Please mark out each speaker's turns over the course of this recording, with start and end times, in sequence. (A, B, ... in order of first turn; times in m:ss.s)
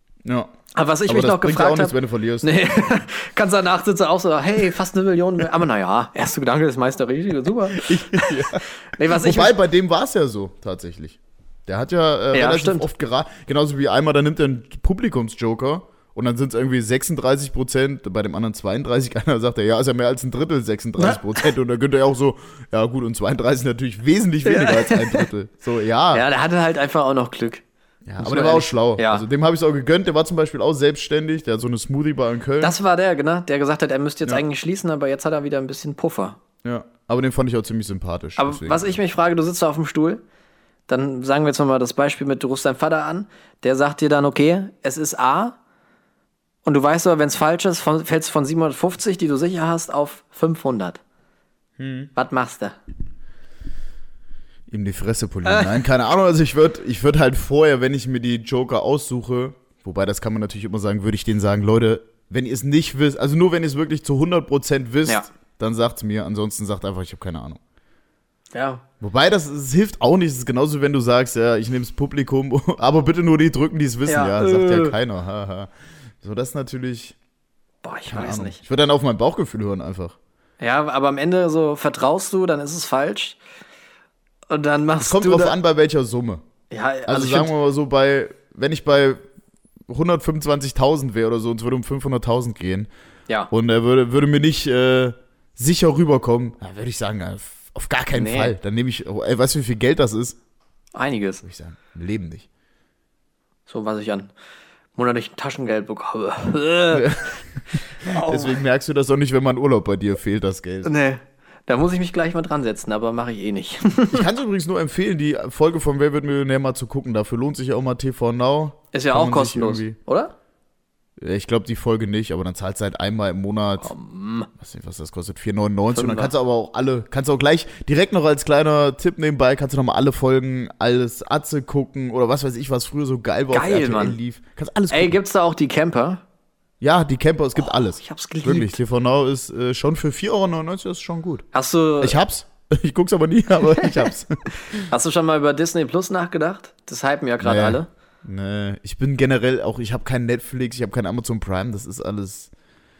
0:00.2-0:00.5 A
0:00.7-0:09.6 B
0:01.1-0:03.0 A
0:07.8-0:26.2 A
0:12.3-0:12.9 B
0:24.4-0:25.3 B
0:26.1-0:27.6 B
0:28.0-0:32.8 A
0:28.2-0:29.2 B
0:32.6-0:36.4 B
0:36.6-0:39.0 A
0:38.4-0:40.2 B
0:40.9-0:45.6 B
0:46.6-0:51.0 B
0:51.8-0:52.1 A
0:52.2-0:52.8 B
0:54.7-1:07.6 A
1:08.5-1:08.8 B
1:09.0-1:15.7 A
1:14.1-1:15.0 B
1:16.2-1:17.2 A
1:17.8-1:18.6 B
1:18.1-1:20.2 A
1:20.6-1:23.4 B
1:24.5-1:25.6 B
1:25.0-1:26.4 A
1:26.7-1:27.5 B
1:27.1-1:29.2 A
1:29.9-1:32.9 A
1:33.5-1:40.4 A
1:38.1-1:38.5 B
1:41.0-1:41.4 B
1:41.4-1:42.5 A
1:43.7-1:44.3 B
1:45.0-1:47.2 B
1:46.9-1:50.9 A
1:47.8-1:48.6 B
1:50.8-1:54.3 B
1:54.1-2:00.0 A
1:58.9-2:00.3 B
2:01.2-2:03.9 A
2:03.8-2:04.5 B
2:04.6-2:15.2 A
2:05.9-2:06.3 B
2:13.5-2:14.2 B
2:14.9-2:16.2 B
2:16.8-2:21.4 A
2:17.6-2:18.8 B
2:21.5-2:22.2 B
2:22.0-2:24.9 A
2:23.8-2:24.1 B
2:24.8-2:27.9 B
2:27.4-2:32.5 A